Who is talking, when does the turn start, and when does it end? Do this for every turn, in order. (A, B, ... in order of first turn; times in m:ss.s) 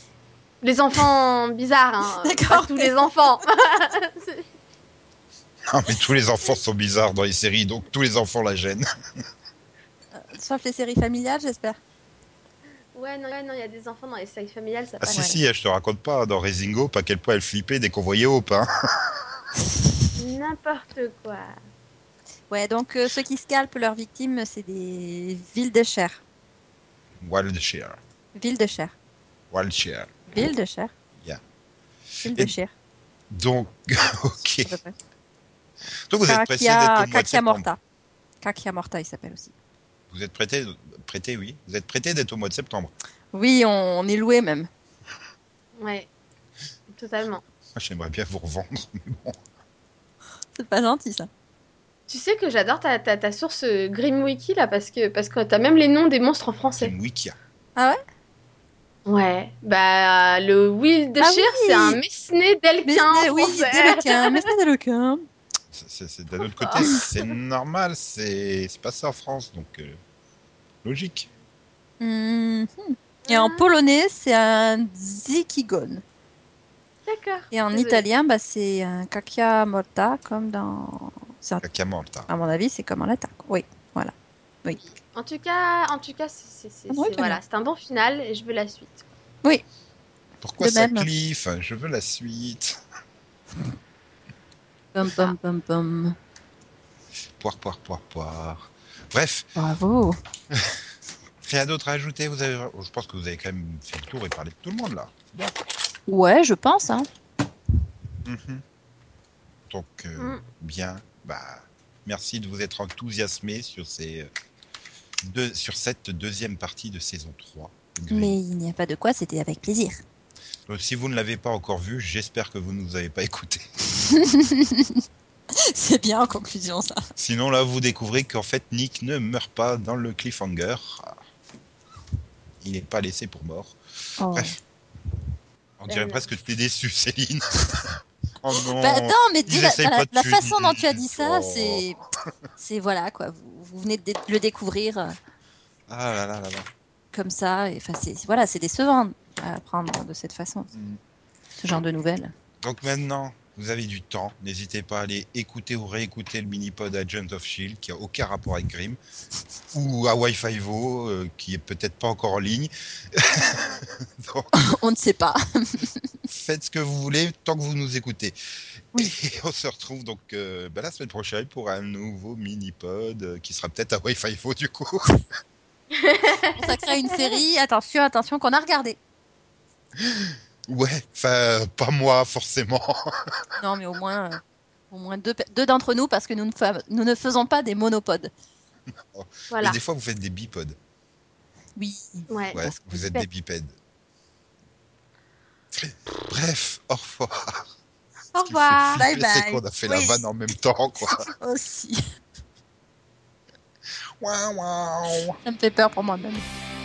0:00.6-0:04.5 A
0:02.2-0:02.9 B
0:05.7-0:08.8 C
0:10.1-0:11.8 B
0:12.9-0:15.2 A
0:15.0-0:19.1 C
0:15.1-0:15.4 B
0:20.2-0:21.5 A
0:22.5-0:26.2 B
0:27.2-0:28.0 C
0:28.4-0:28.9 B
0:29.5-0:30.4 C
0:30.3-0:30.9 B
0:32.2-0:32.5 C
0:32.2-0:32.7 B
0:33.3-0:34.8 C
0:34.6-0:35.0 B
0:36.1-0:37.7 C
0:36.2-0:37.8 B
0:38.4-0:39.5 B
0:40.1-0:42.9 C
0:43.3-0:44.7 B
0:45.8-0:46.1 A
0:46.9-0:47.4 A
0:47.7-0:49.4 C
0:50.5-0:51.3 B
0:52.1-0:56.9 A
0:56.8-0:57.3 C
0:59.1-1:04.5 A
1:01.2-1:02.0 B
1:02.8-1:05.2 B
1:05.7-1:10.0 C
1:06.5-1:07.3 A
1:10.8-1:11.3 C
1:12.0-1:16.0 B
1:13.2-1:13.7 A
1:17.1-1:18.0 A
1:17.5-1:21.6 B
1:21.6-1:22.3 C
1:22.3-1:24.1 B
1:25.1-1:29.0 A
1:26.9-1:27.4 B
1:30.4-1:32.8 C
1:30.6-1:31.1 B
1:34.9-1:36.2 B
1:37.4-1:39.5 C
1:39.6-1:40.2 B
1:40.5-1:40.8 C
1:41.4-1:45.6 C
1:46.1-1:47.1 B
1:48.2-1:48.6 C
1:49.7-1:54.3 C
1:55.2-1:58.4 C
1:58.1-2:00.0 B
2:00.7-2:03.6 C
2:04.0-2:05.0 B
2:05.6-2:07.0 B
2:07.2-2:11.2 C
2:12.6-2:13.8 C
2:14.2-2:14.6 B
2:14.3-2:14.6 C
2:15.8-2:21.8 C
2:15.9-2:16.2 B
2:18.7-2:22.0 B
2:22.6-2:25.2 B
2:25.9-2:26.7 C
2:27.1-2:30.7 B
2:31.6-2:32.3 B
2:32.6-2:39.0 C
2:39.7-2:44.6 C
2:44.5-2:46.1 B
2:46.3-2:48.4 C
2:48.9-2:55.2 C
2:55.9-2:57.3 A
2:56.6-2:59.0 B
3:00.0-3:03.4 C
3:03.6-3:04.4 B
3:04.9-3:08.3 B
3:09.1-3:10.8 C
3:09.5-3:09.8 A
3:11.8-3:13.2 B
3:12.3-3:12.6 A
3:12.5-3:13.7 C
3:15.7-3:17.6 C
3:18.3-3:19.0 A
3:18.4-3:21.3 C
3:19.0-3:20.2 B
3:21.3-3:22.0 B
3:24.2-3:25.4 C
3:25.4-3:26.4 B